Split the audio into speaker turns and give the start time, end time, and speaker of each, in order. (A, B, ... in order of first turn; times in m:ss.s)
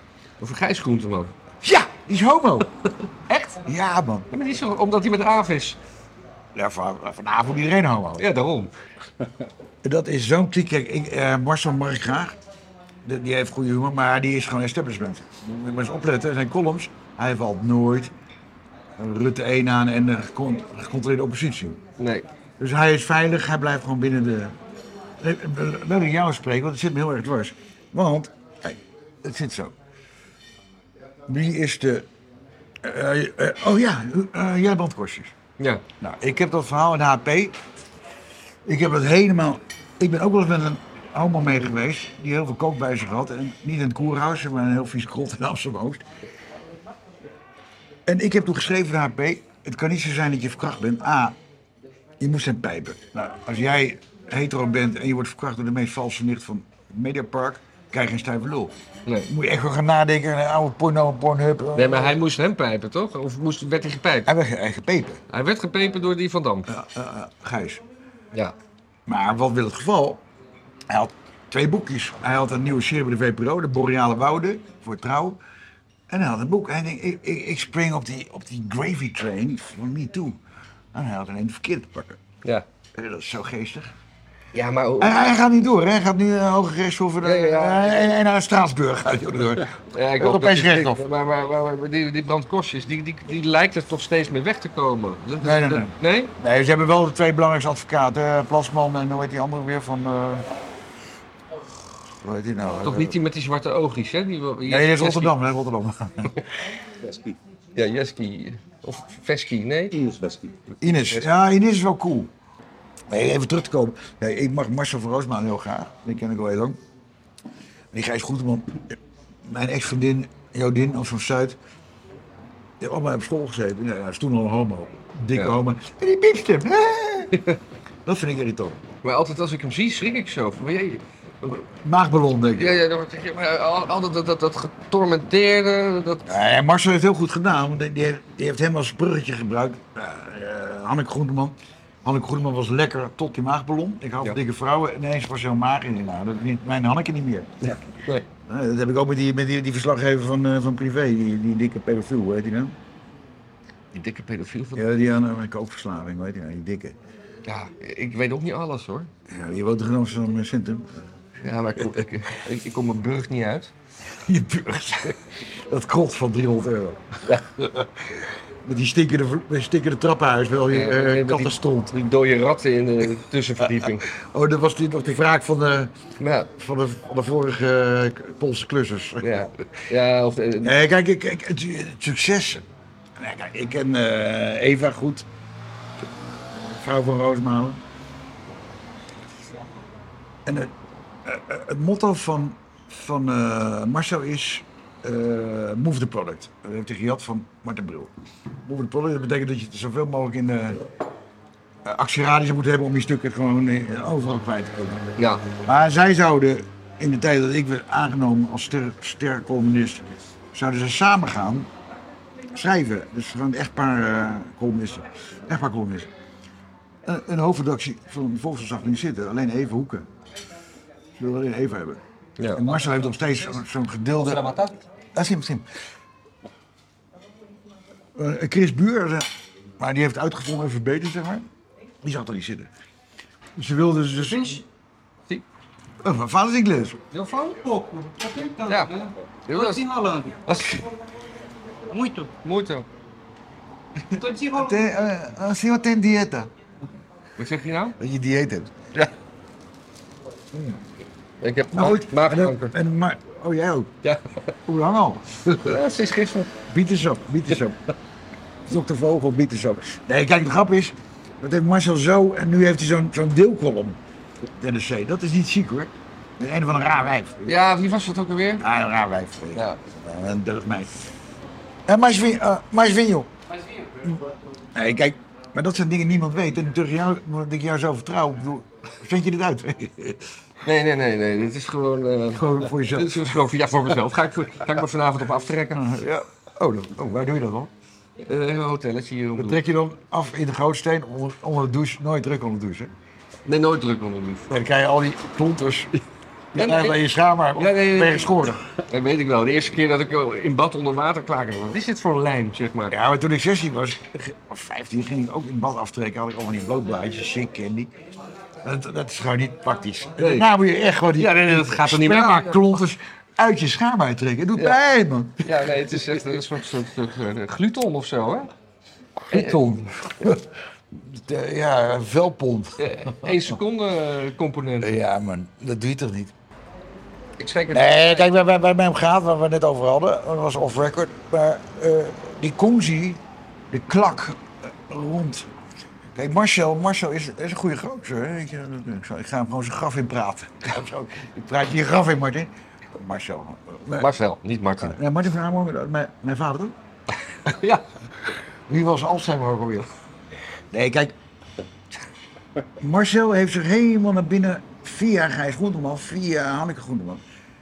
0:00.4-0:01.3 A
0:01.6-0:02.7 B
0:03.3-0:03.5 A
0:03.5-0:04.3 B
0:04.3-0:05.8 A
0:06.5-0:08.2 B
0:08.2-0:08.7 A
0:09.8-0:12.4 B
0:13.0-0:18.1 B
0:19.0-0:21.8 B
0:22.0-0:22.2 A
0:22.6-0:24.6 B
0:25.2-0:29.7 B
0:31.3-0:32.1 B
0:32.8-0:35.3 B
0:35.6-0:35.8 A
0:36.0-0:37.6 B
0:38.6-0:46.0 B
0:48.0-0:51.4 B
0:52.2-0:58.7 B
0:59.2-1:02.2 B
1:01.7-1:04.3 A
1:04.2-1:05.2 B
1:05.3-1:06.7 A
1:06.7-1:07.8 B
1:09.1-1:10.2 B
1:10.9-1:15.4 B
1:16.1-1:20.4 B
1:20.9-1:22.2 B
1:22.9-1:23.9 B
1:24.5-1:25.2 A
1:25.0-1:31.0 B
1:27.2-1:28.1 A
1:29.9-1:36.3 A
1:35.4-1:40.5 B
1:42.2-1:43.2 B
1:42.6-1:45.3 A
1:44.6-1:46.4 B
1:47.0-1:47.4 C
1:47.8-1:49.9 A
1:49.9-1:50.6 C
1:50.8-1:52.3 B
1:53.1-1:56.8 B
1:57.9-2:01.6 B
2:02.8-2:07.4 B
2:08.0-2:08.8 B
2:09.0-2:11.6 A
2:11.8-2:12.8 B
2:12.6-2:16.3 A
2:16.2-2:27.5 B
2:27.6-2:28.2 A
2:28.4-2:32.8 B
2:33.9-2:34.8 A
2:34.7-2:37.0 B
2:37.4-2:39.1 A
2:39.3-2:40.9 B
2:41.4-2:43.7 A
2:44.1-2:52.0 B
2:50.7-2:54.1 A
2:53.6-2:55.9 B
2:56.2-2:56.5 A
2:56.6-2:59.4 B
2:59.2-3:00.7 A
3:00.6-3:02.6 B
3:03.2-3:05.3 B
3:06.6-3:07.8 B
3:10.4-3:10.7 B
3:11.2-3:18.1 B
3:18.6-3:20.8 B
3:21.8-3:25.0 B
3:25.2-3:25.4 A
3:25.6-3:31.7 B
3:32.5-3:36.1 B
3:37.0-3:40.1 B
3:41.2-3:42.0 B
3:42.4-3:42.6 A
3:42.5-3:44.6 B
3:44.2-3:44.7 C
3:45.1-3:45.6 B
3:48.1-3:49.3 B
3:49.8-3:51.5 B
3:52.0-3:52.7 B
3:53.6-3:54.6 B
3:56.0-3:57.0 B
3:57.1-4:00.4 C
3:57.2-3:57.5 A
3:58.7-3:58.9 A
3:59.5-3:59.8 A
4:00.4-4:00.8 A
4:01.9-4:02.3 C
4:02.4-4:02.9 A
4:04.0-4:04.8 C
4:04.5-4:06.5 B
4:07.4-4:08.0 A
4:08.0-4:08.7 B
4:10.5-4:10.8 B
4:11.4-4:12.7 A
4:11.7-4:13.9 B
4:14.7-4:15.8 B
4:15.6-4:16.5 A
4:16.7-4:17.8 B
4:18.6-4:24.0 B
4:24.6-4:27.5 B
4:27.4-4:28.6 A
4:28.6-4:31.0 B
4:31.9-4:33.3 B
4:34.0-4:40.3 B
4:40.6-4:46.0 A
4:42.3-4:43.3 B
4:45.7-4:47.7 B
4:48.2-4:49.6 A
4:49.4-4:52.9 B
4:53.4-4:54.5 A
4:54.5-4:56.0 B
4:56.5-4:58.6 B
4:56.5-4:57.0 A
4:57.6-5:03.0 A
5:02.9-5:07.9 B
5:08.6-5:16.4 B
5:10.2-5:10.4 A
5:11.2-5:12.8 A
5:15.4-5:18.5 A
5:19.3-5:20.5 B
5:19.3-5:19.6 A
5:21.0-5:23.5 B
5:22.8-5:24.9 A
5:24.8-5:26.3 B
5:27.4-5:28.2 A
5:27.7-5:35.5 B
5:36.2-5:44.1 B
5:44.0-5:45.0 A
5:44.8-5:46.7 B
5:47.4-5:47.8 A
5:48.7-5:49.9 B
5:50.7-5:51.1 B
5:52.8-5:57.2 B